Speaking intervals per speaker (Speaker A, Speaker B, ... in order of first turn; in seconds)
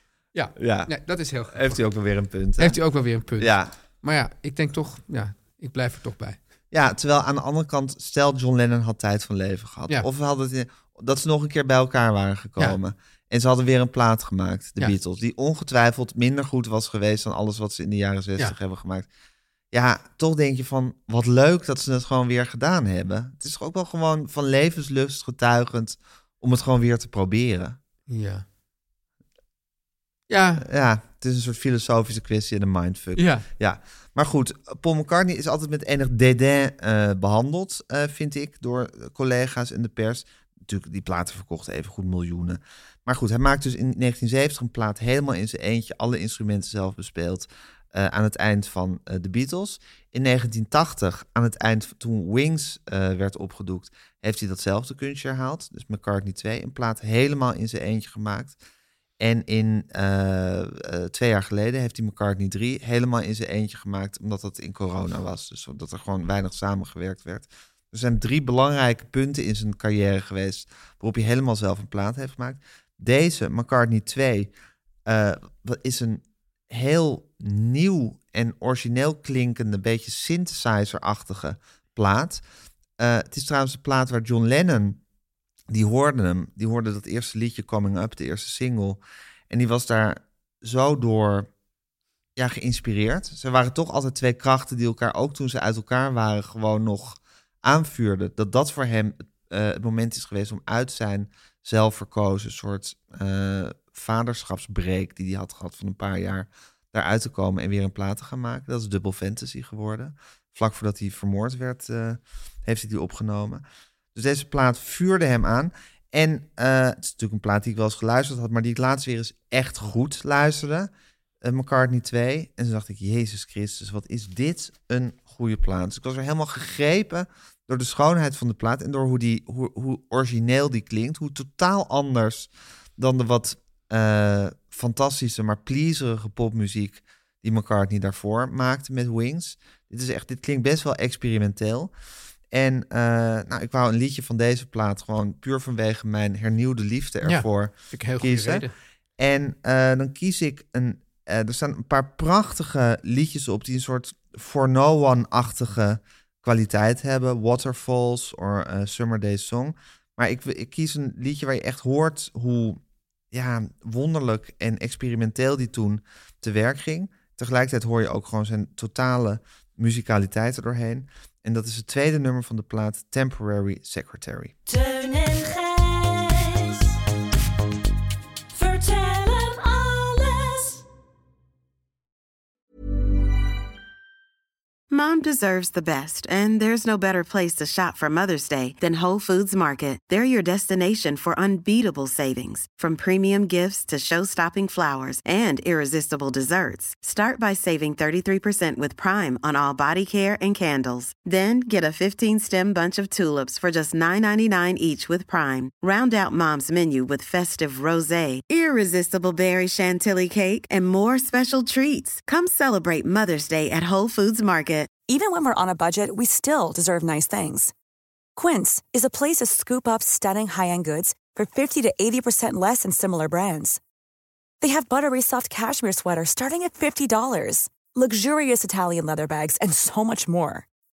Speaker A: 0.3-1.8, 2.6-6.4, 28.1-28.4, 30.3-30.6, 33.1-33.4, 147.2-148.7
Speaker B: 0.6-3.7, 6.7-19.1, 19.7-27.8, 30.6-58.6, 59.2-74.5, 75.0-82.4, 83.0-85.0, 85.7-91.5, 92.3-113.6, 114.1-120.9, 121.4-141.9, 142.5-148.6, 149.2-162.8, 163.3-174.5
Speaker C: 174.7-176.9, 178.5-180.8
Speaker D: 184.9-214.9
Speaker E: 215.1-217.7, 218.3-223.8, 224.6-230.7